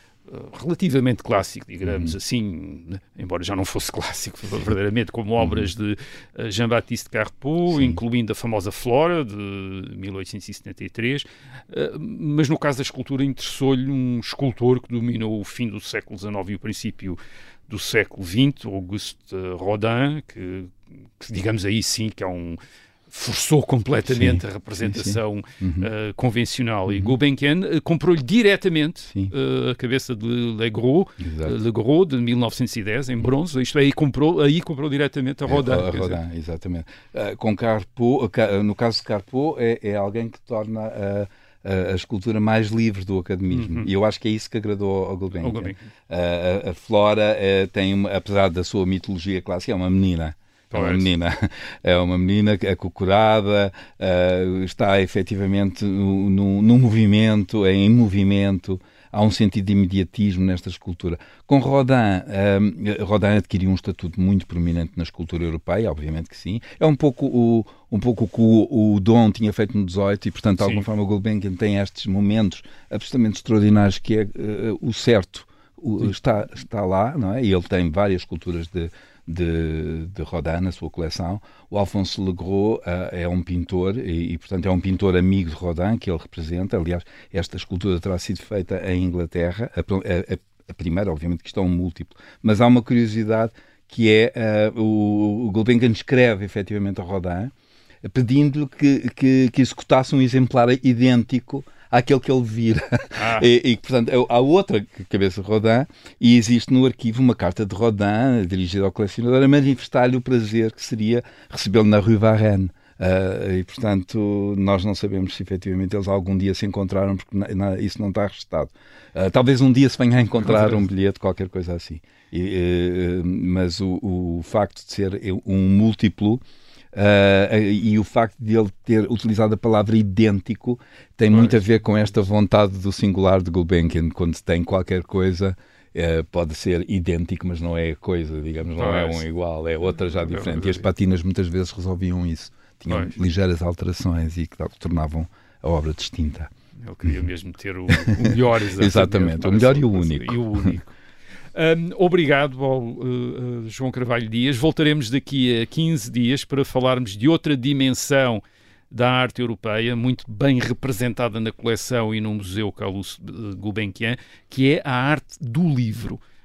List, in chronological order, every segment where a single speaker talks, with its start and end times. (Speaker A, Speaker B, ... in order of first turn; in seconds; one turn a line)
Speaker A: 0.3-17.2
Speaker B: 1.8-2.1
Speaker B: 5.4-5.7
Speaker B: 7.7-8.0
Speaker A: 17.7-22.6
Speaker A: 23.1-36.2
Speaker B: 24.1-25.9
Speaker B: 26.9-27.1
Speaker B: 31.2-31.5
Speaker B: 35.5-97.5
Speaker A: 43.5-43.9
Speaker A: 45.3-45.9
Speaker A: 50.7-51.1
Speaker B: 98.0-126.4
Speaker A: 103.2-103.5
Speaker A: 120.5-120.8
Speaker B: 126.9-146.5
Speaker A: 131.3-131.6
Speaker A: 138.8-139.2
Speaker A: 140.2-140.8
Speaker A: 142.9-143.1
Speaker A: 146.8-150.9
Speaker B: 148.0-150.7
Speaker A: 151.5-166.2